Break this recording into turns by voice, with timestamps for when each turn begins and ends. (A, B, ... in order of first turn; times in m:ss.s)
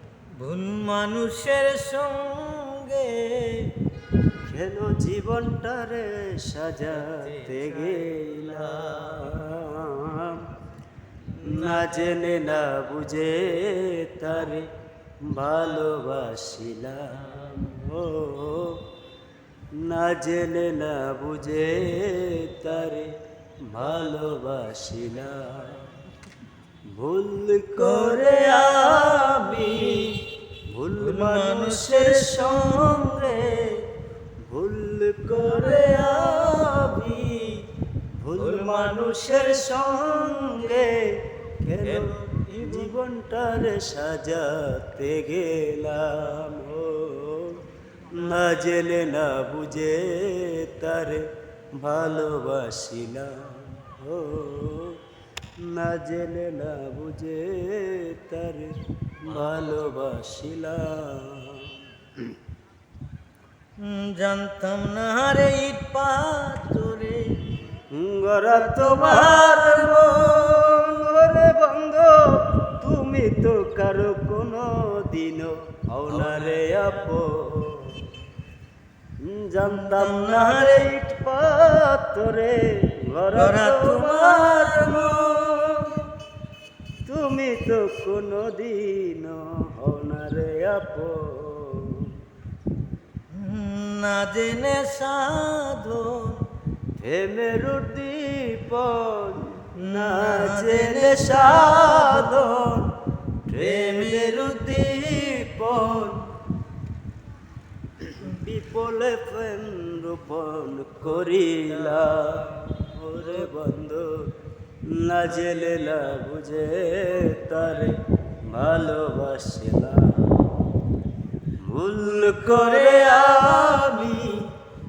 0:00.4-0:03.7 A
0:04.5-0:10.5 B
0:07.4-0:07.9 A
0:11.4-0:14.7 B
0:11.4-0:12.1 A
0:15.3-0:18.8 B
0:19.8-0:23.1 B
0:23.7-0:25.8 B
0:26.9-0:33.8 B
0:27.8-0:30.2 A
0:31.0-0:33.0 A
0:34.5-0:37.6 B
0:38.2-0:55.0 B
0:38.6-0:38.9 A
0:41.9-0:42.9 A
0:55.6-1:01.7 B
1:03.8-1:07.2 A
1:07.9-1:18.1 B
1:08.5-1:10.1 A
1:19.2-1:25.7 B
1:19.7-1:20.9 A
1:23.4-1:25.8 A
1:27.0-1:32.2 B
1:33.3-1:36.4 A
1:37.0-1:42.9 B
1:39.8-1:42.4 A
1:43.5-1:46.3 B
1:43.6-1:44.5 A
1:48.0-1:54.2 B
1:54.9-1:58.0 B
1:58.5-2:00.4 B
2:01.6-2:04.5 B
2:02.4-2:03.2 A